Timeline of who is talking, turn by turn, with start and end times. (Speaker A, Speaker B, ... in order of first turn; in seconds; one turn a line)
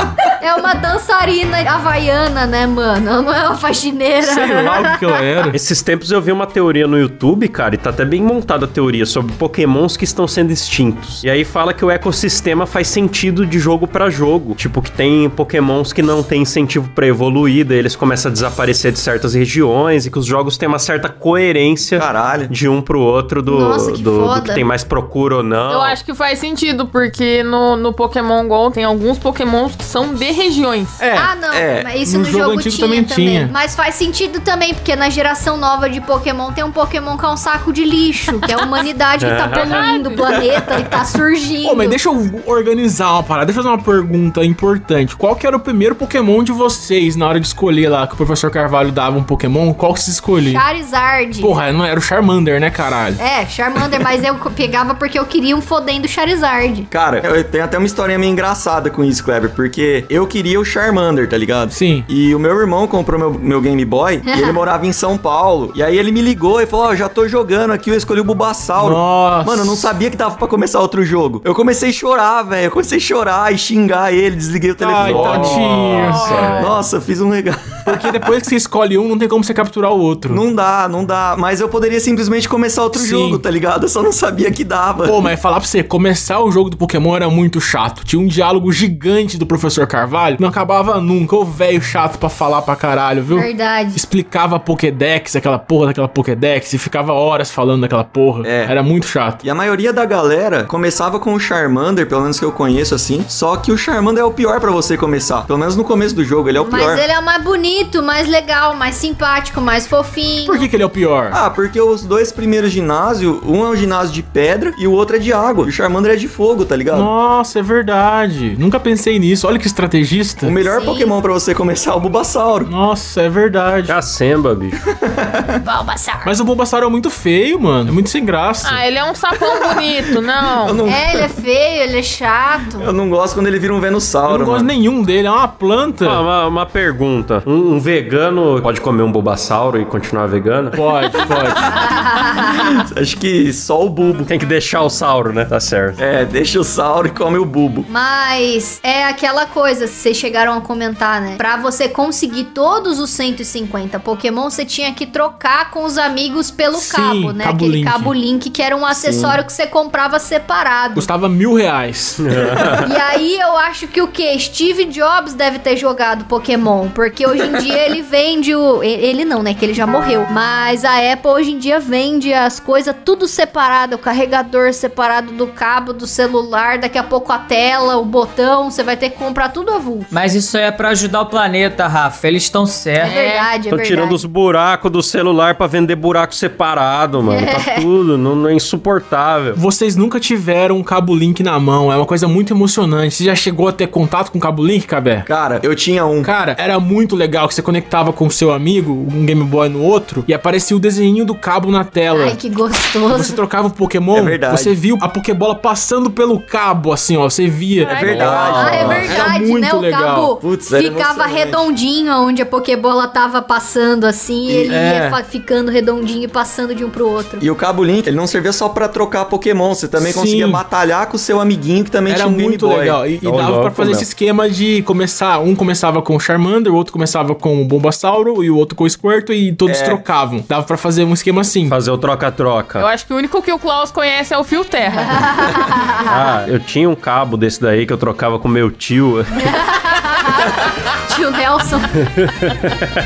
Speaker A: 0.4-5.2
Speaker B: 4.2-5.6
Speaker C: 5.5-26.0
Speaker D: 21.9-22.5
Speaker A: 23.4-24.6
Speaker E: 25.7-31.0
Speaker B: 31.0-31.3
Speaker A: 31.1-42.0
Speaker D: 31.5-31.9
Speaker B: 32.0-33.5
Speaker C: 39.2-39.9
Speaker E: 39.5-40.3
Speaker B: 41.6-50.6
Speaker A: 50.5-51.6
Speaker B: 51.4-53.2
Speaker A: 53.2-56.9
Speaker D: 56.9-78.1
Speaker B: 61.7-62.1
Speaker A: 64.3-64.6
Speaker B: 68.8-69.9
Speaker B: 74.8-76.6
Speaker C: 75.0-76.7
Speaker E: 76.0-76.7
Speaker B: 77.8-80.4
Speaker D: 80.3-85.2
Speaker B: 82.9-83.4
Speaker B: 85.0-99.4
Speaker A: 93.3-94.0
Speaker D: 98.4-98.7
Speaker D: 99.4-107.0
Speaker A: 106.6-110.7
Speaker B: 110.4-111.4
Speaker D: 111.3-117.1
Speaker B: 116.9-120.5
Speaker D: 120.4-122.7
Speaker A: 120.6-121.1
Speaker B: 122.7-123.9
Speaker C: 123.9-124.8
Speaker D: 125.0-125.6
Speaker A: 125.6-126.3
Speaker B: 126.2-128.8
Speaker E: 128.6-130.8
Speaker D: 130.6-131.3
Speaker A: 130.8-132.9
Speaker D: 132.8-134.7
Speaker B: 134.3-136.2
Speaker C: 136.0-140.8
Speaker B: 140.7-141.6
Speaker A: 141.6-142.8
Speaker D: 142.4-144.3
Speaker C: 144.2-146.0
Speaker D: 146.0-147.9
Speaker A: 147.9-161.1
Speaker B: 156.7-158.1
Speaker D: 158.9-159.4
Speaker B: 160.9-162.2
Speaker C: 162.2-162.9
Speaker A: 162.8-180.1
Speaker F: 180.1-183.1
Speaker E: 183.0-183.5
Speaker A: 183.0-184.2
Speaker C: 183.7-189.6
Speaker A: 187.2-187.8
Speaker B: 189.5-195.3
Speaker D: 195.2-196.3
Speaker B: 196.2-202.4
Speaker A: 202.1-203.4
Speaker B: 203.1-210.3
Speaker D: 204.1-204.7
Speaker E: 207.8-208.6
Speaker D: 207.9-209.3
Speaker C: 208.1-209.1
Speaker A: 208.5-217.4
Speaker D: 210.4-211.7
Speaker D: 214.4-214.8
Speaker B: 214.7-215.2
Speaker D: 217.4-223.0
Speaker B: 220.0-220.6
Speaker B: 222.1-231.8
Speaker C: 223.2-224.1
Speaker D: 229.7-230.0
Speaker C: 231.7-232.9
Speaker E: 232.8-235.2
Speaker A: 235.1-236.2
Speaker C: 236.1-239.6
Speaker A: 239.4-242.1
Speaker C: 242.4-242.8